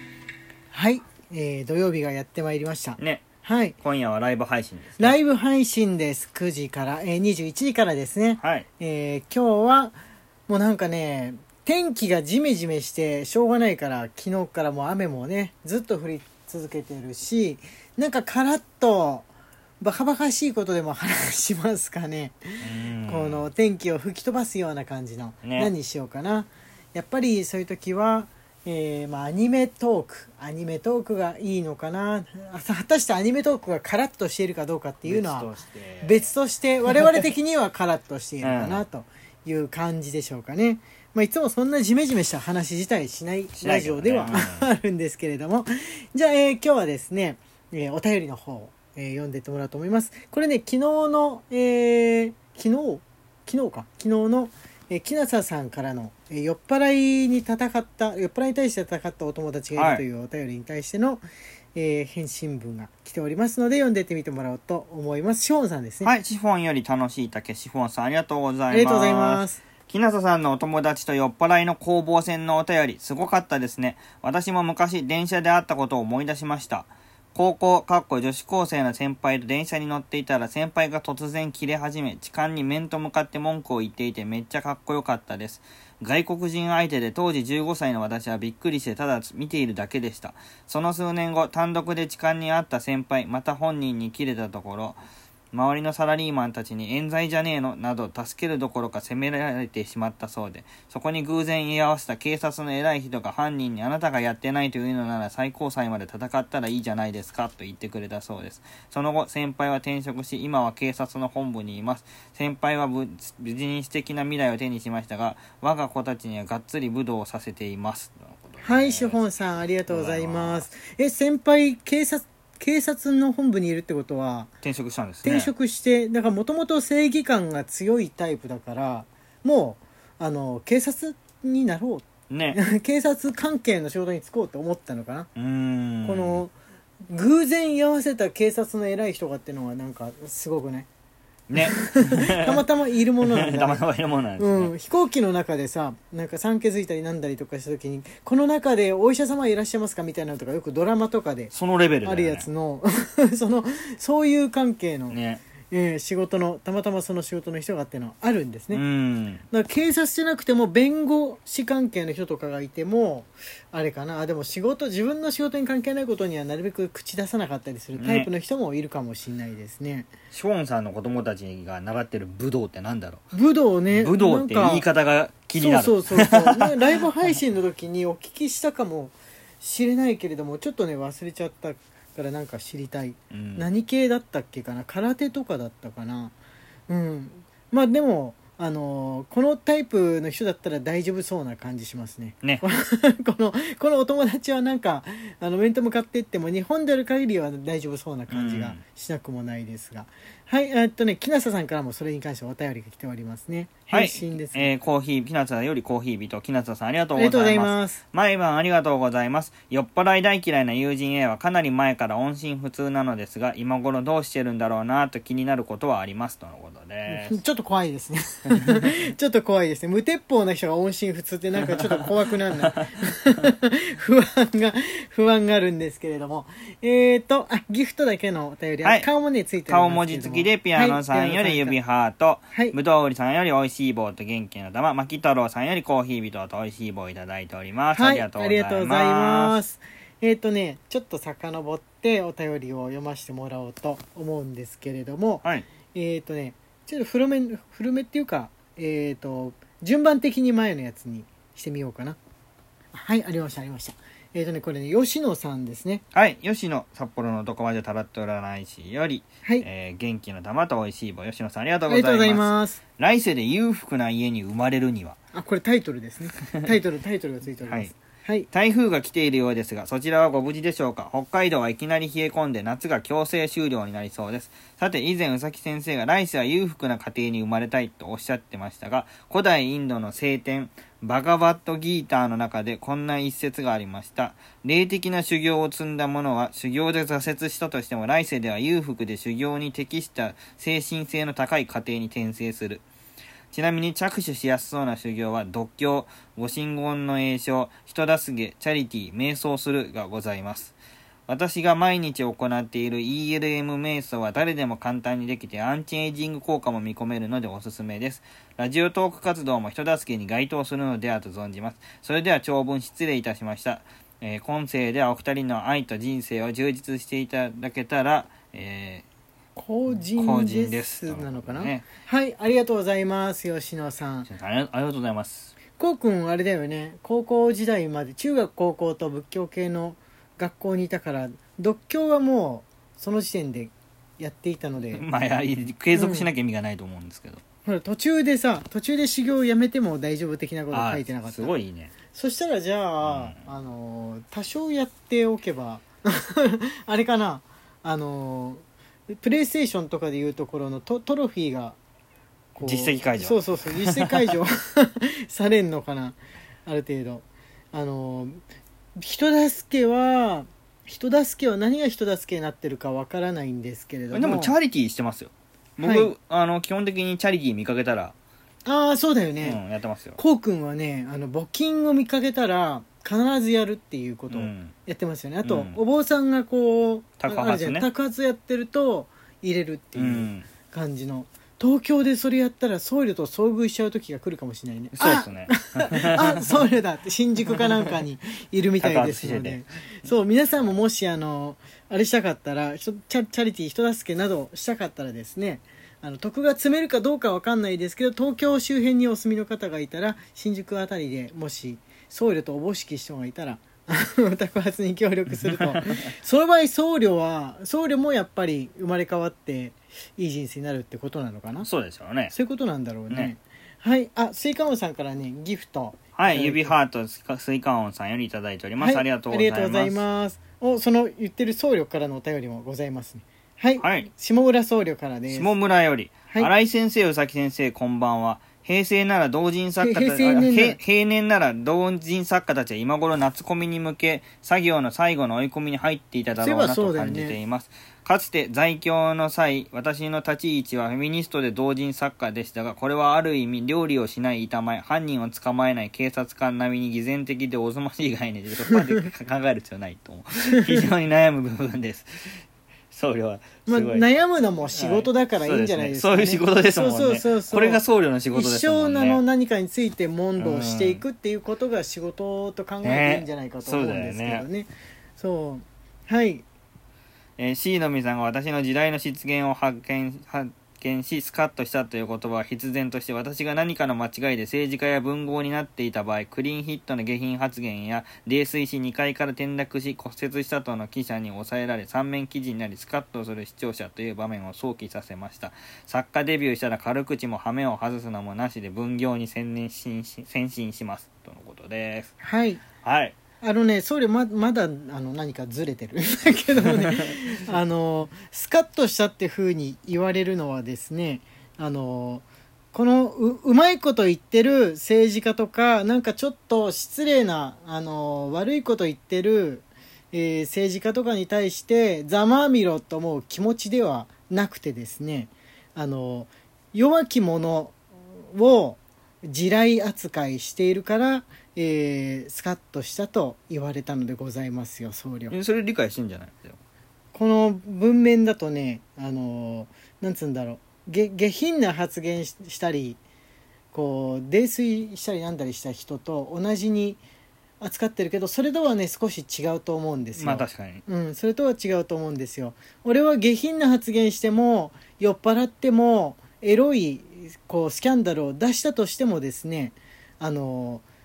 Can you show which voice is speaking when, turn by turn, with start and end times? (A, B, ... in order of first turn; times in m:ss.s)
0:00.7-0:03.8 A
0:03.0-0:03.2 B
0:03.8-0:05.1 B
0:05.0-0:09.9 A
0:08.4-0:08.6 B
0:10.5-0:19.3 A
0:19.8-0:35.5 A
0:22.6-0:23.5 B
0:25.4-0:25.7 B
0:35.0-0:36.3 B
0:36.0-1:06.1 A
0:38.4-0:38.8 B
0:43.6-0:44.7 B
0:59.7-1:00.0 B
1:06.0-1:35.0 B
1:08.7-1:09.6 A
1:35.5-1:59.2 B
1:58.6-2:04.5 A
1:59.9-2:00.7 B
2:04.6-2:05.5 B
2:05.2-2:15.3 A
2:12.3-2:12.6 B
2:15.3-2:16.4 B
2:16.0-2:16.5 A
2:17.1-2:20.9 A
2:21.5-2:22.6 B
2:21.6-2:23.8 A
2:23.2-2:24.7 B
2:24.4-2:31.5 A
2:31.5-2:32.4 B
2:32.0-2:38.8 A
2:35.1-2:35.4 B
2:38.7-2:39.4 B
2:39.5-2:50.1 A
2:48.0-2:48.3 B
2:50.3-2:53.2 B
2:53.3-2:54.8 A
2:53.9-2:56.7 B
2:55.6-3:06.3 A
3:03.3-3:03.7 B
3:06.9-3:24.8 A
3:18.3-3:18.8 B
3:23.9-3:37.4 B
3:27.2-3:28.0 A
3:37.1-3:51.8 A
3:41.6-3:41.9 B
3:48.8-3:49.1 B
3:49.7-3:59.6 B
3:57.9-4:12.2 A
4:12.9-4:16.0 A
4:16.1-4:25.2 B
4:21.9-4:22.8 A
4:25.3-4:28.5 A
4:27.6-4:27.9 B
4:28.5-4:52.8 B
4:53.5-5:00.7 B
5:01.3-5:19.0 B
5:19.6-5:24.3 A
5:19.9-5:21.8 B
5:24.3-5:25.5 B
5:25.8-5:35.0 A
5:34.9-5:37.4 B
5:35.9-5:36.3 A
5:37.6-5:41.5 A
5:40.7-5:41.9 B
5:42.1-5:51.8 A
5:43.0-5:43.4 B
5:52.5-5:58.4 A
5:52.6-5:54.3 B
5:59.0-6:04.6 A
6:04.1-6:08.1 B
6:05.8-6:06.1 A
6:08.6-6:09.6 A
6:09.4-6:10.2 B
6:10.2-6:51.7 A
6:14.3-6:14.7 B
6:15.4-6:15.8 B
6:17.2-6:17.9 B
6:20.0-6:20.5 B
6:25.0-6:26.5 B
6:27.5-6:27.9 B
6:28.8-6:29.6 B
6:51.6-6:52.3 B
6:52.3-6:56.7 A
6:56.2-7:00.0 B
6:58.8-7:05.5 A
7:03.8-7:04.1 B
7:05.3-7:34.0 B
7:09.8-7:10.8 A
7:16.4-7:17.4 A
7:33.6-7:46.4 A
7:34.7-7:39.2 B
7:40.4-7:41.0 B
7:42.8-7:44.4 B
7:47.4-8:12.1 B
8:12.2-8:12.6 A
8:12.8-8:13.2 B
8:13.4-8:45.3 A
8:45.3-8:46.6 B
8:47.1-8:53.0 A
8:53.7-8:57.0 A
8:57.6-9:10.8 A
9:00.2-9:00.8 B